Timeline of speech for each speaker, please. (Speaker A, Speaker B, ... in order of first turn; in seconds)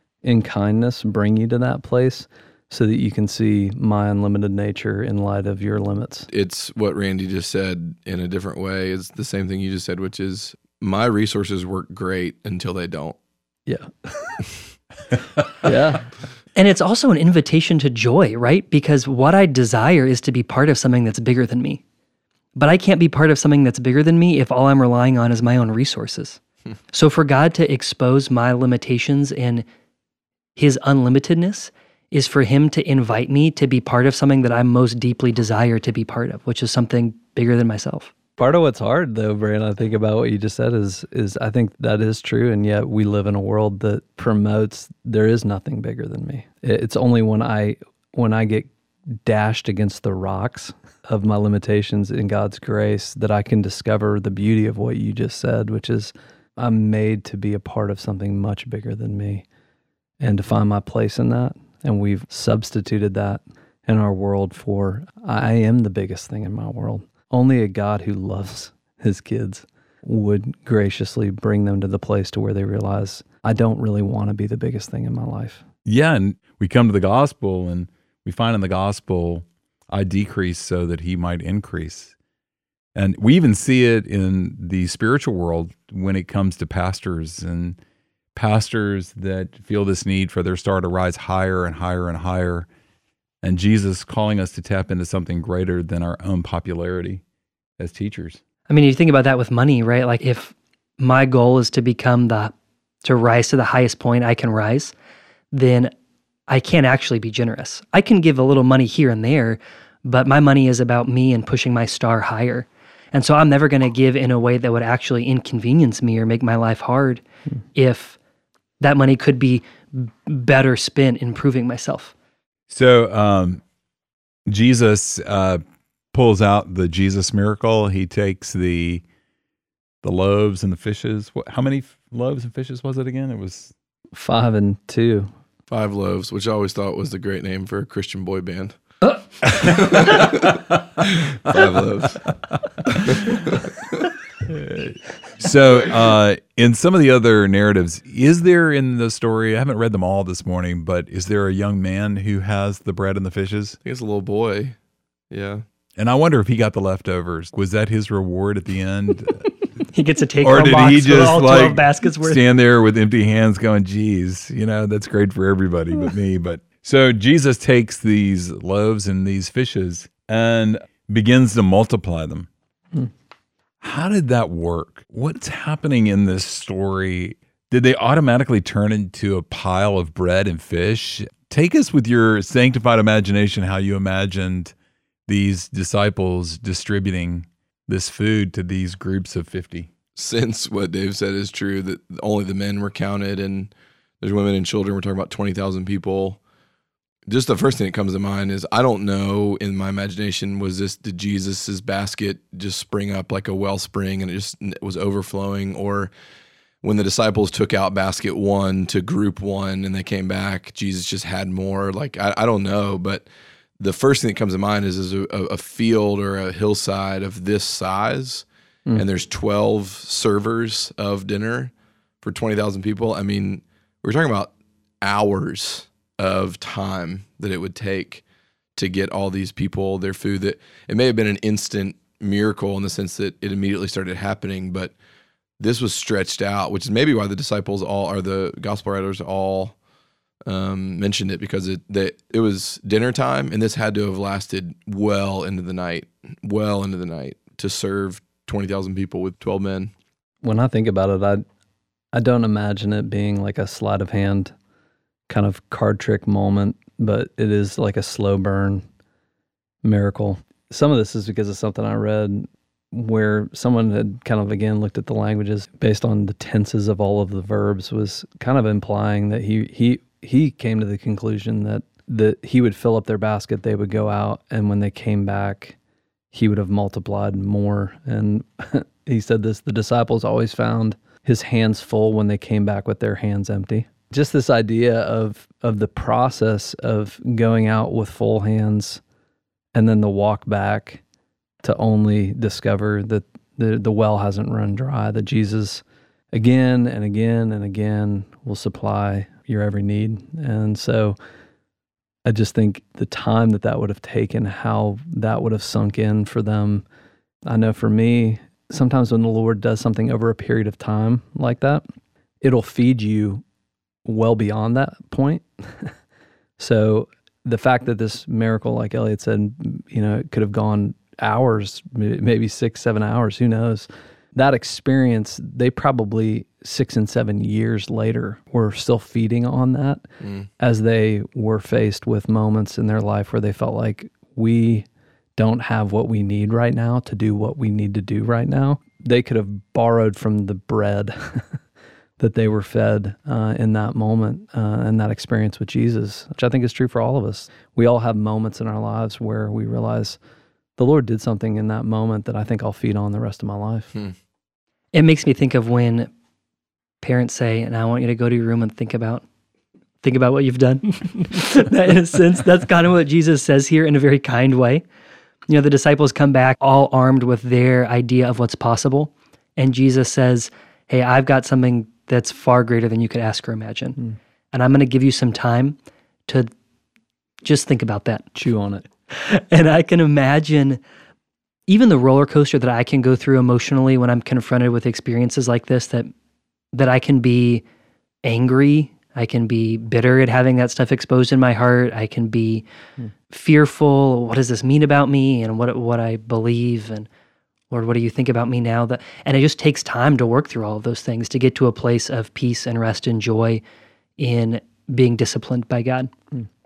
Speaker A: 0.2-6.3, 13.7-14.4, 15.6-16.1, 38.4-48.7, 49.2-59.4, 60.2-75.6, 134.1-135.3, 250.4-251.4, 252.1-254.5, 255.3-258.8, 259.8-275.8, 276.3-289.0, 289.7-291.0, 291.6-301.2, 302.3-306.8, 307.5-311.8, 312.4-313.4, 314.1-315.9, 316.6-330.0, 330.6-334.9, 335.4-341.6, 342.2-350.2, 350.8-353.9, 378.4-378.9
Speaker B: 6.3-13.2, 135.7-138.7, 139.4-142.3, 142.9-143.9, 153.8-154.8, 155.3-155.6, 190.2-196.4, 197.3-206.1, 206.8-213.3, 213.8-224.5, 225.0-228.2, 228.8-234.9, 235.6-239.8, 240.5-249.9, 330.2-330.5
Speaker C: 16.6-21.8, 22.6-26.4, 26.9-29.6, 30.6-38.1, 98.7-102.5, 103.0-104.9, 105.5-105.9, 106.5-117.2, 117.8-118.2, 118.8-122.1, 159.9-162.4, 354.9-356.1, 357.0-359.2, 360.0-364.8, 365.5-374.0, 374.5-375.8, 377.4-378.3, 379.1-380.8, 381.7-386.1, 386.7-387.6, 388.2-392.6, 393.3-397.1, 397.7-403.6, 404.2-406.1
Speaker D: 75.8-82.1, 83.0-87.8, 88.3-92.7, 93.4-97.2, 97.8-98.4, 122.7-123.6, 124.5-125.6, 126.1-129.0, 130.0-133.7, 144.5-153.8, 156.0-159.5, 160.4-172.5, 173.8-184.7, 185.3-189.9